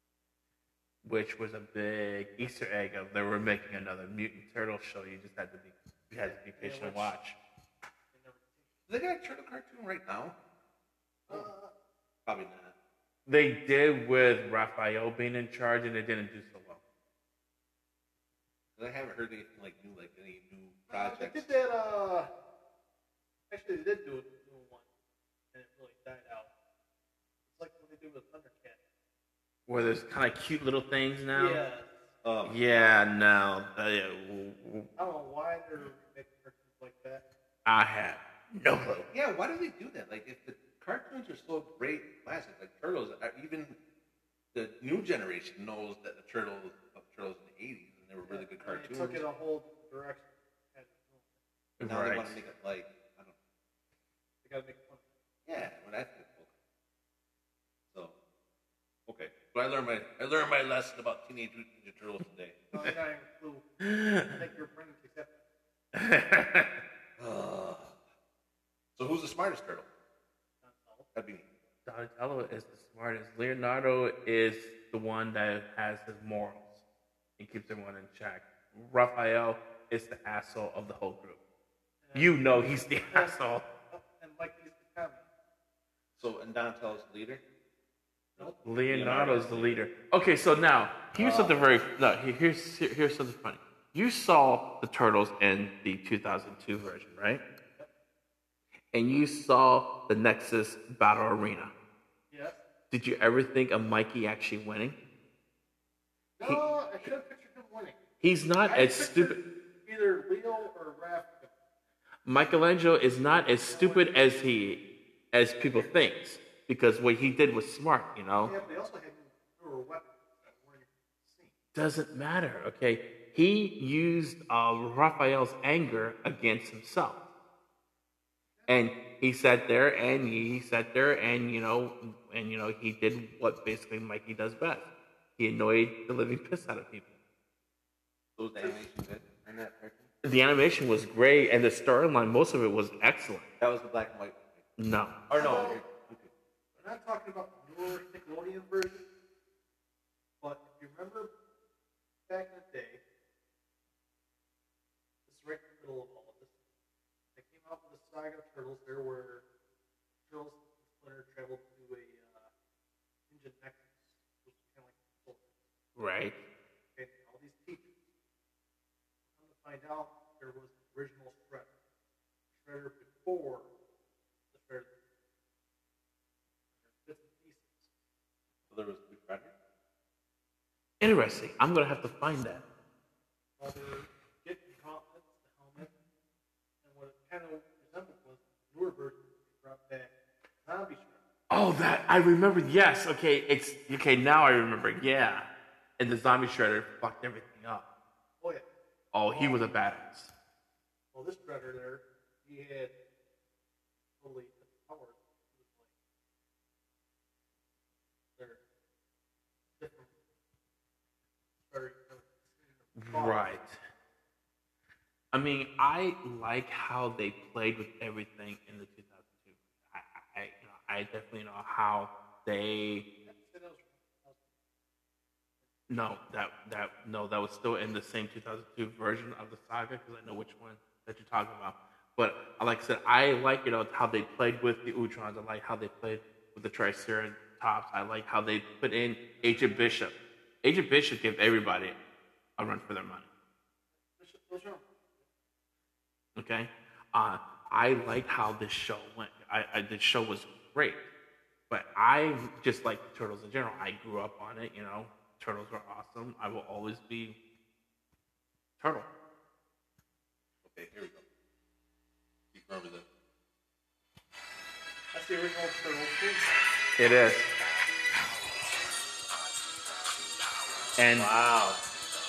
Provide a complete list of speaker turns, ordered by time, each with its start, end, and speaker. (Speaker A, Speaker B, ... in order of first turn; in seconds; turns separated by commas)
Speaker A: 1.0-7.4, Speaker B: 6.2-7.2, Speaker B: 8.1-8.7, Speaker C: 8.9-10.3, Speaker B: 11.3-11.7, Speaker C: 12.2-12.7, Speaker A: 13.3-16.8, Speaker C: 18.8-21.5, Speaker B: 20.9-22.3, Speaker B: 23.5-24.9, Speaker B: 25.5-26.5, Speaker B: 27.5-28.8, Speaker A: 29.7-31.6, Speaker B: 31.3-32.1, Speaker C: 32.2-32.6, Speaker A: 32.5-34.9, Speaker B: 35.0-37.2, Speaker A: 37.7-39.1, Speaker C: 39.1-43.8, Speaker C: 44.5-49.2, Speaker B: 48.2-51.4, Speaker A: 51.8-52.4, Speaker C: 51.8-53.4, Speaker B: 54.4-55.0, Speaker C: 55.5-56.5, Speaker C: 59.1-62.6, Speaker B: 62.7-63.7, Speaker A: 63.8-64.4, Speaker B: 64.2-65.3, Speaker A: 65.9-66.7, Speaker C: 67.2-68.0, Speaker C: 69.0-69.9, Speaker B: 70.6-71.1, Speaker C: 71.1-71.5, Speaker A: 71.9-76.8, Speaker A: 77.4-81.4, Speaker B: 82.0-85.2, Speaker A: 82.2-83.6, Speaker C: 86.2-87.4, Speaker B: 88.4-88.6, Speaker A: 88.6-97.4, Speaker C: 88.9-89.8, Speaker C: 91.2-91.8, Speaker A: 98.9-101.7, Speaker B: 102.3-102.6, Speaker A: 102.9-105.0, Speaker B: 106.4-108.0, Speaker A: 108.2-109.4, Speaker B: 108.6-111.5, Speaker A: 112.2-114.8, Speaker B: 113.7-114.2, Speaker A: 115.3-118.5, Speaker B: 118.4-121.5, Speaker A: 121.7-127.2, Speaker A: 128.7-137.1, Speaker C: 138.4-140.1, Speaker A: 140.2-143.5, Speaker C: 143.6-144.7, Speaker A: 144.8-145.2, Speaker C: 145.3-146.3, Speaker B: 145.3-145.8, Speaker B: 146.8-149.1, Speaker B: 150.4-151.3, Speaker B: 152.3-153.0, Speaker B: 155.3-156.5, Speaker B: 157.3-159.4, Speaker B: 160.3-162.5, Speaker B: 163.3-165.5, Speaker A: 166.0-166.4, Speaker B: 166.9-168.0, Speaker B: 169.4-171.7, Speaker B: 172.6-173.7, Speaker B: 174.5-174.9, Speaker B: 176.8-177.9, Speaker C: 178.7-179.5, Speaker A: 181.0-182.6, Speaker B: 183.6-185.9, Speaker B: 186.8-190.1, Speaker B: 190.6-191.2, Speaker A: 191.5-197.8, Speaker A: 199.1-200.3, Speaker B: 199.3-199.8, Speaker B: 201.1-202.9, Speaker B: 204.2-205.9, Speaker B: 209.8-210.1, Speaker B: 211.7-213.6, Speaker A: 213.0-213.8, Speaker A: 215.3-223.1, Speaker B: 223.2-224.5, Speaker A: 225.9-242.0, Speaker B: 239.4-239.9, Speaker A: 242.6-243.3, Speaker B: 244.0-245.2, Speaker A: 246.4-251.0, Speaker A: 251.7-257.4, Speaker A: 258.8-259.1, Speaker C: 260.6-261.2, Speaker C: 262.5-263.1, Speaker B: 265.1-266.6, Speaker A: 267.0-267.5, Speaker A: 271.0-271.3, Speaker C: 271.1-271.8